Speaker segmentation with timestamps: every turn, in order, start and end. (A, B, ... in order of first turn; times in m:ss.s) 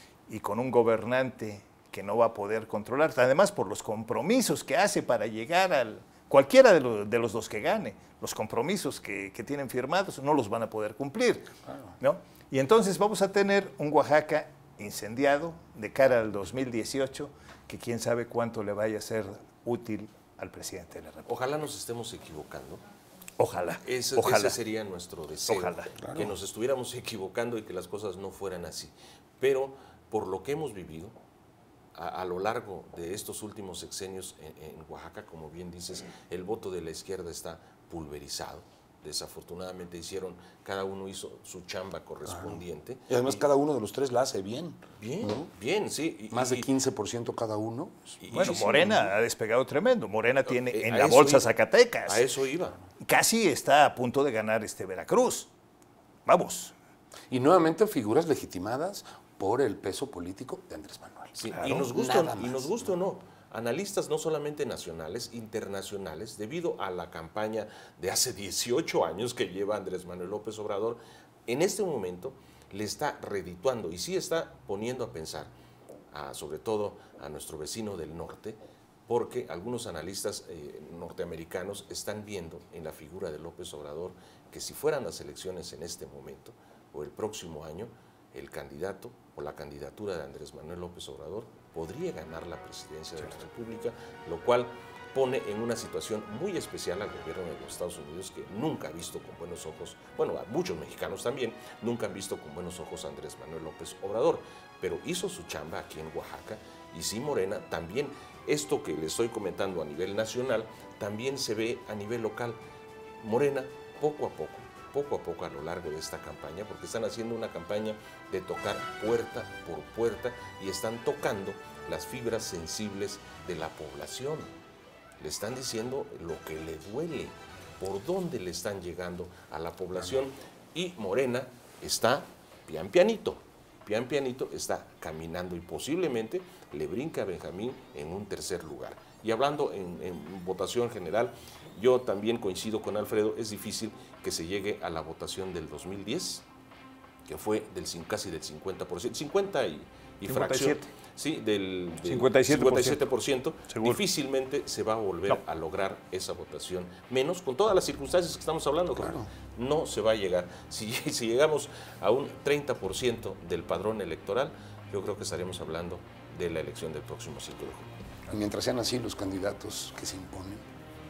0:00.3-0:21.3 A
0:21.3-0:22.8 B
0:23.4-0:24.6 A
0:23.8-0:31.2 B
0:25.5-0:25.9 A
0:26.0-0:26.3 C
0:32.0-0:43.1 B
0:42.2-0:45.5 C
0:45.0-0:46.7 B
0:46.3-0:49.1 C
0:48.2-0:48.8 B
0:48.3-0:52.3 A
0:50.5-0:51.5 B
0:52.1-0:52.8 B
0:53.0-0:55.5 A
0:56.3-0:56.7 A
0:57.3-1:02.9 C
1:01.4-1:15.5 B
1:01.5-1:01.9 A
1:16.1-1:52.6 B
1:53.2-2:04.5 B
2:05.2-2:26.5 B
2:27.3-2:47.9 B
2:30.3-2:30.9 A
2:32.0-2:33.1 A
2:33.7-2:34.0 A
2:39.0-2:39.3 C
2:48.3-2:50.6 C